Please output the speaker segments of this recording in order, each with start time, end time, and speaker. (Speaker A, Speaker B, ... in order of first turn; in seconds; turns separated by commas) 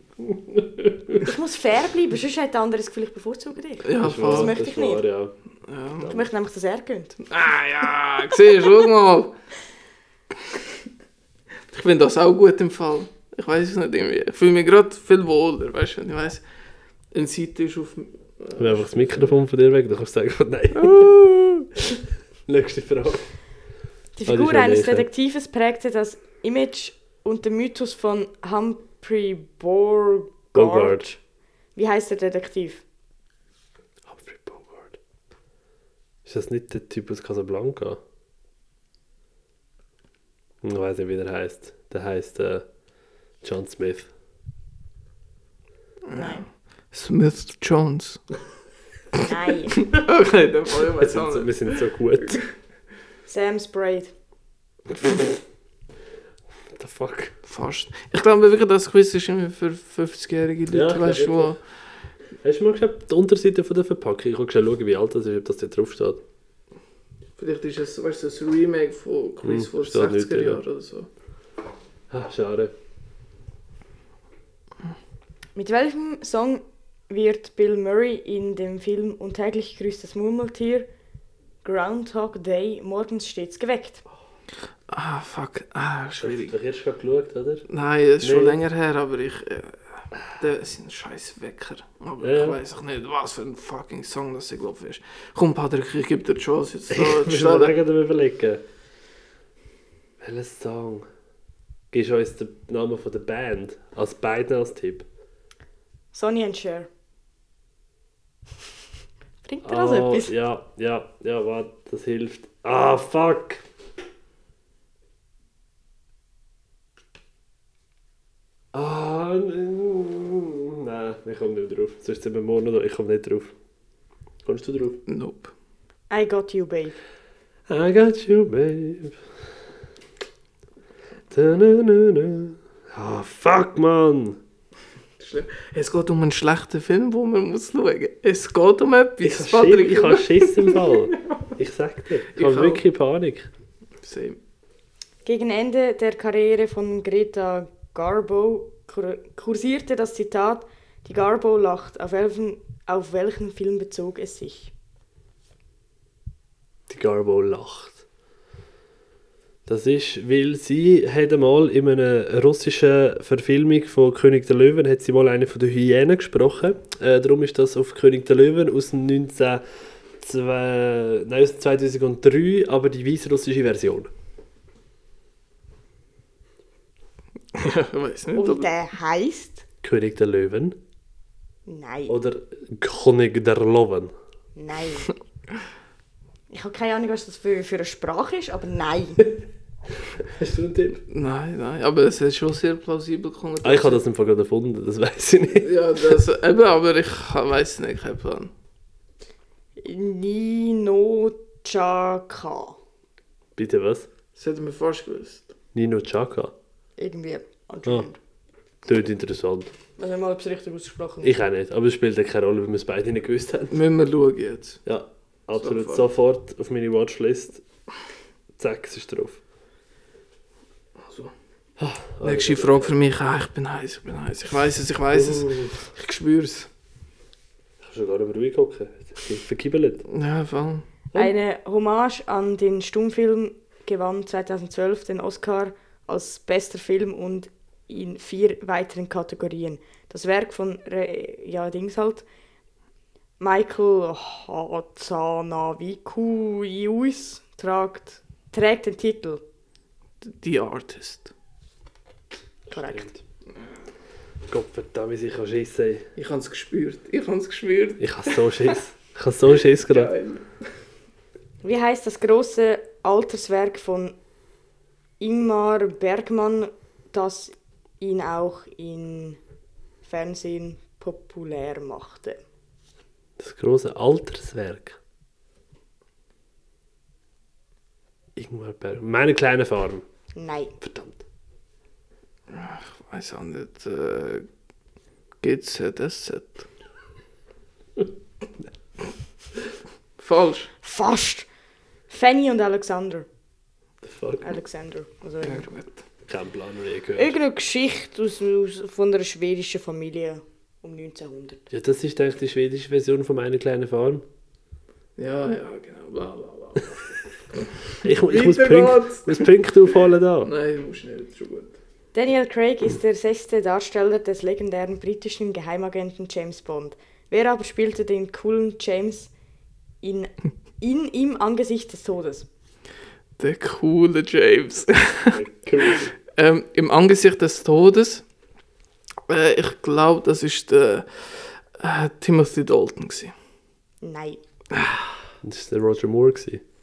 Speaker A: 0.2-1.2, Speaker B: 1.2-5.0, Speaker C: 3.8-4.5, Speaker A: 4.0-5.3, Speaker C: 5.6-6.1, Speaker A: 6.0-6.2, Speaker B: 6.1-7.2, Speaker C: 7.2-9.3, Speaker C: 10.3-10.8, Speaker C: 11.7-16.4, Speaker C: 17.1-19.4, Speaker A: 18.6-21.2, Speaker C: 20.7-21.7, Speaker A: 22.5-23.3, Speaker B: 24.1-31.2, Speaker A: 24.2-25.1, Speaker A: 30.5-31.1, Speaker B: 31.8-32.8, Speaker A: 34.1-35.0, Speaker A: 36.2-38.0, Speaker A: 40.6-42.6, Speaker A: 43.4-44.1, Speaker C: 46.1-48.2, Speaker B: 46.1-46.4, Speaker B: 49.1-49.9, Speaker C: 49.9-51.8, Speaker A: 51.0-52.4, Speaker B: 53.3-54.1, Speaker A: 55.0-55.3, Speaker A: 56.7-57.4, Speaker C: 57.5-61.6, Speaker A: 60.7-61.5, Speaker A: 62.4-66.2, Speaker C: 67.4-71.1, Speaker A: 69.4-70.6, Speaker A: 72.1-72.7, Speaker B: 75.5-80.9, Speaker B: 81.6-84.0, Speaker C: 84.9-86.5, Speaker A: 86.2-87.7, Speaker C: 87.7-97.8, Speaker A: 88.2-88.6, Speaker A: 92.2-92.6, Speaker A: 96.9-98.6, Speaker A: 100.2-101.1, Speaker A: 101.9-105.0, Speaker B: 106.1-106.9, Speaker B: 109.4-110.3, Speaker A: 109.6-113.6, Speaker A: 118.7-123.5, Speaker A: 124.4-125.0, Speaker C: 125.1-125.5, Speaker B: 126.1-127.0, Speaker A: 127.7-129.2, Speaker A: 131.3-134.4, Speaker C: 135.2-141.1, Speaker A: 139.2-143.5, Speaker C: 142.3-142.8, Speaker C: 144.0-144.4, Speaker B: 145.2-154.7, Speaker A: 156.9-158.0, Speaker A: 159.7-169.6, Speaker A: 170.2-174.1, Speaker C: 177.5-178.7, Speaker B: 178.3-179.6, Speaker A: 179.8-180.8, Speaker B: 181.7-182.2, Speaker A: 182.1-184.1, Speaker B: 184.6-185.1, Speaker B: 186.5-189.2, Speaker A: 190.0-191.0, Speaker C: 191.1-194.0, Speaker A: 193.6-195.8, Speaker C: 195.6-198.5, Speaker B: 199.8-202.8, Speaker A: 203.6-204.1, Speaker C: 204.3-205.5, Speaker A: 205.7-206.5, Speaker B: 207.0-208.2, Speaker A: 208.8-209.7, Speaker B: 210.0-211.3, Speaker A: 211.2-213.8, Speaker C: 213.7-214.8, Speaker A: 214.8-217.6, Speaker C: 215.6-216.1, Speaker A: 218.6-219.4, Speaker C: 221.0-221.3, Speaker A: 221.8-222.9, Speaker C: 222.2-226.7, Speaker A: 225.1-225.9, Speaker A: 227.8-230.0, Speaker C: 230.1-230.8, Speaker B: 231.1-242.2, Speaker B: 243.4-249.4, Speaker C: 250.2-251.3, Speaker A: 252.7-253.2, Speaker B: 252.7-253.1, Speaker A: 254.5-256.1, Speaker C: 256.1-258.8, Speaker A: 258.0-260.1, Speaker C: 259.9-260.5, Speaker B: 261.6-264.1, Speaker B: 265.2-269.4, Speaker B: 270.0-272.4, Speaker A: 273.4-275.0, Speaker A: 278.4-280.1, Speaker B: 280.3-280.7, Speaker A: 280.8-281.2, Speaker C: 282.5-284.5, Speaker C: 285.4-286.7, Speaker C: 290.2-290.7, Speaker B: 290.8-291.5, Speaker B: 292.1-293.2, Speaker A: 294.0-294.6, Speaker B: 294.4-295.7, Speaker C: 295.4-296.0, Speaker A: 296.3-297.3, Speaker B: 297.2-301.6, Speaker A: 301.7-304.2, Speaker C: 305.2-306.9, Speaker C: 307.5-309.6, Speaker A: 308.0-310.5, Speaker C: 310.4-311.8, Speaker B: 312.1-319.3, Speaker B: 320.0-322.5, Speaker C: 323.4-328.2, Speaker A: 325.3-326.1, Speaker C: 329.3-333.3, Speaker B: 334.0-334.4, Speaker C: 334.7-335.1, Speaker A: 335.4-336.6